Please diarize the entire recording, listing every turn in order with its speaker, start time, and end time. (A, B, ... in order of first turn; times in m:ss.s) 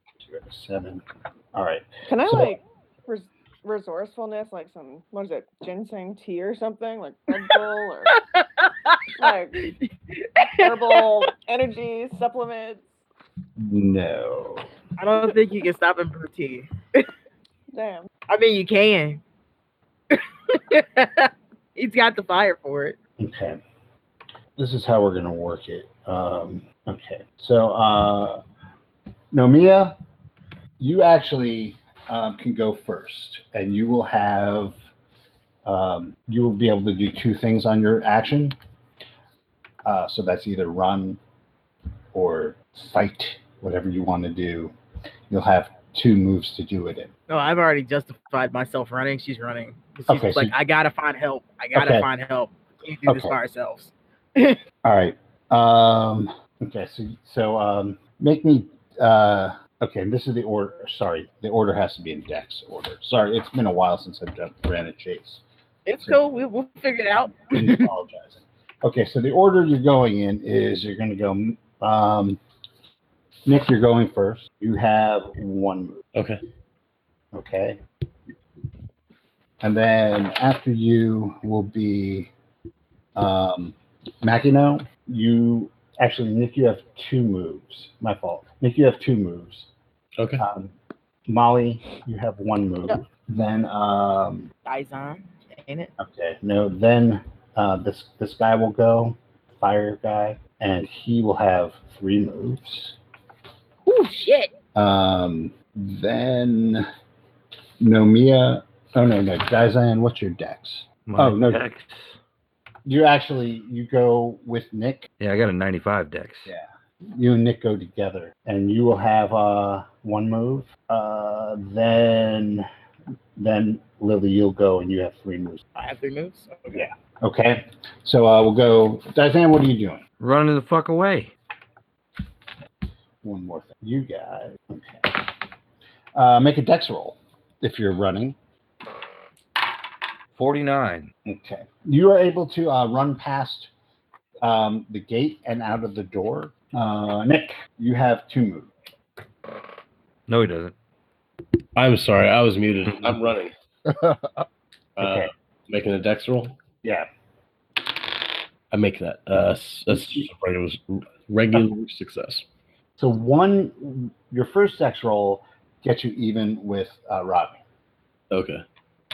0:00.2-0:02.5 A
0:02.1-0:08.2 B
0:08.1-0:09.0 C
0:09.2-0:09.6 B
0:09.6-0:11.2 C
0:10.6-0:12.9 B
0:13.6-0:14.7 A
0:15.0-0:17.0 C
0:17.7-0:18.1 B
0:18.3-0:19.2 C
0:20.1-0:23.0 C
0:23.2-0:23.6 A
0:24.6-0:28.4 A
0:29.3-0:30.0 A
0:30.8-0:34.8 A
0:35.6-0:38.6 A
0:39.8-0:41.2 A
0:42.1-0:44.7 A
0:45.3-0:47.1 A
0:47.3-0:54.6 C
0:50.1-0:50.5 A
0:51.7-0:52.1 A
0:53.1-0:53.4 A
0:54.8-1:05.4 A
1:05.8-1:07.9 C
1:07.5-1:12.4 A
1:13.4-1:16.0 A
1:16.1-1:16.4 D
1:17.3-1:17.8 A
1:19.6-1:22.3 A
1:23.2-1:29.7 A
1:30.2-1:30.4 D
1:30.4-1:30.7 A
1:31.3-1:34.5 A
1:34.6-1:35.9 C
1:36.0-1:43.0 A
1:43.8-1:44.5 C
1:44.7-1:46.9 A
1:47.8-1:51.6 A
1:51.0-1:52.2 E
1:52.8-1:55.0 A
1:55.2-1:56.5 E
1:56.5-2:02.7 A
2:03.4-2:05.6 A
2:05.8-2:06.9 C
2:06.7-2:10.0 A
2:10.2-2:11.3 E
2:13.2-2:15.3 A
2:16.1-2:18.4 A
2:20.3-2:21.1 E
2:21.2-2:23.7 A
2:24.4-2:28.7 A
2:30.3-2:30.7 E
2:31.8-2:33.5 D
2:35.0-2:36.6 D
2:35.0-2:35.3 A
2:38.7-2:42.4 D
2:43.0-2:47.6 A
2:48.3-2:48.6 D